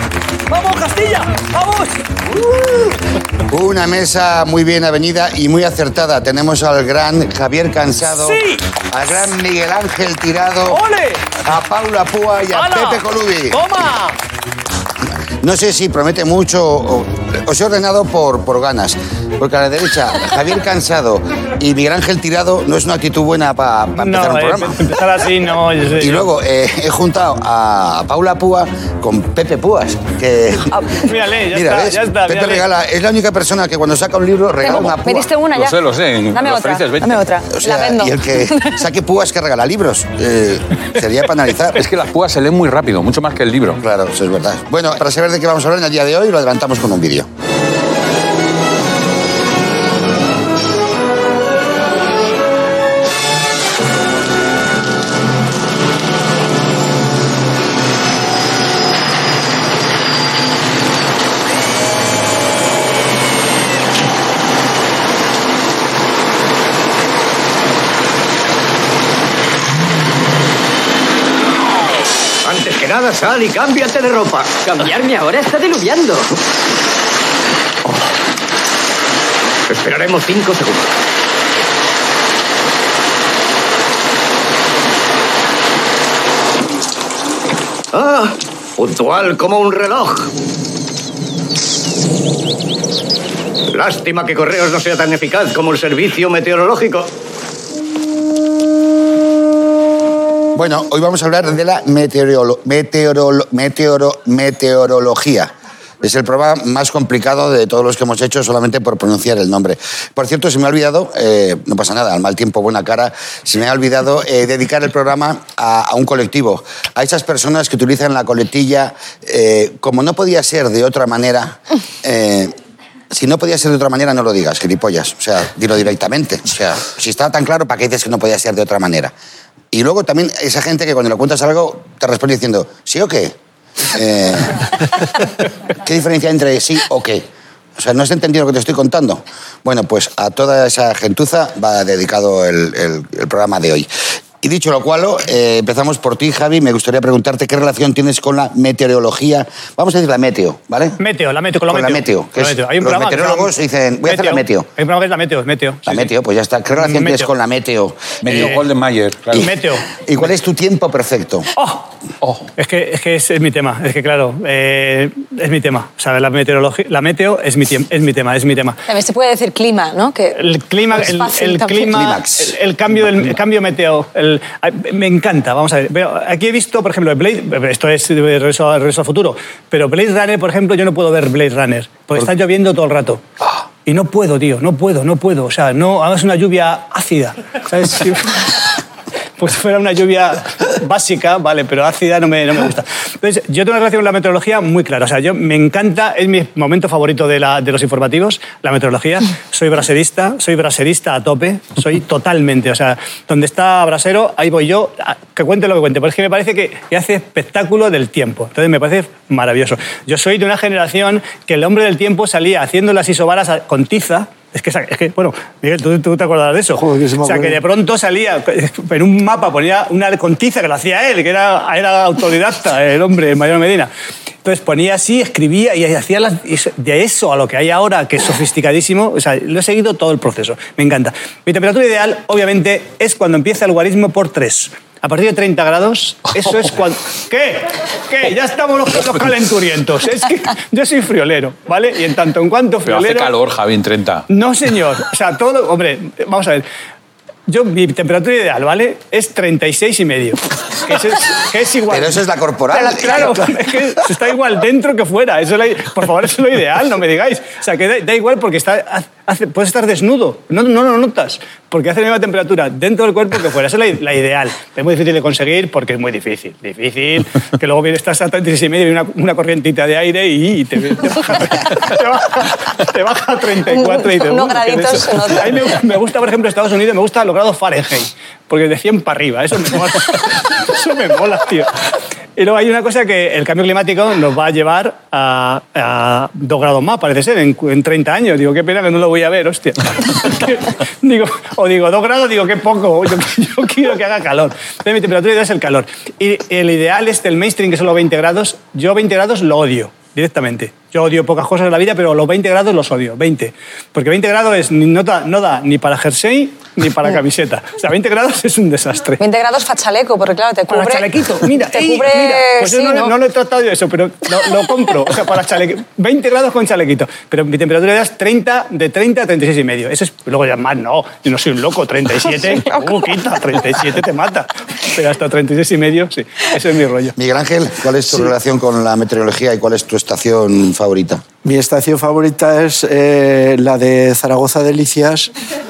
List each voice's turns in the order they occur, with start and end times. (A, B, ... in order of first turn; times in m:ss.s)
0:00.5-0:02.8 A
0:03.5-0:10.8 B
0:08.2-0:08.6 A
0:10.7-0:11.3 A
0:11.4-0:13.6 B
0:12.5-0:14.2 A
0:15.4-0:24.9 B
0:23.9-0:26.3 A
0:26.0-0:35.3 B
0:30.8-0:32.6 A
0:34.6-0:35.8 C
0:35.5-0:37.3 D
0:36.3-0:38.8 C
0:37.6-0:41.8 B
0:41.7-0:43.8 D
0:43.8-0:47.3 B
1:12.4-1:16.3 E
1:19.7-1:20.9 E
1:27.9-1:30.3 E
1:33.7-1:37.1 E
1:40.6-2:02.6 B
2:03.1-2:09.1 B
2:09.7-2:13.4 B
2:13.9-2:14.7 B
2:15.8-2:23.9 B
2:24.4-2:31.0 B
2:31.0-2:33.5 A
2:31.7-2:34.7 B
2:34.0-2:36.1 A
2:35.9-2:38.6 B
2:36.7-2:37.3 A
2:38.3-2:39.5 D
2:38.3-2:38.6 A
2:39.4-2:39.9 A
2:40.0-2:41.5 B
2:41.6-2:41.9 A
2:42.2-2:42.5 D
2:42.6-2:48.8 A
2:48.9-2:50.4 C
2:50.4-3:03.2 A
2:50.9-2:52.1 C
2:51.9-2:52.6 B
3:03.8-3:08.6 A
3:09.4-3:43.9 A
3:36.7-3:37.6 F
3:44.4-4:03.3 A
4:02.9-4:04.3 D
4:04.3-4:06.6 A
4:07.5-4:41.7 A
4:11.9-4:13.4 B
4:33.7-4:35.8 C
4:42.4-5:09.2 A
5:09.2-5:11.1 C
5:10.7-5:27.2 A
5:11.7-5:13.1 C
5:22.4-5:23.1 C
5:27.2-5:31.2 B
5:31.4-5:35.3 F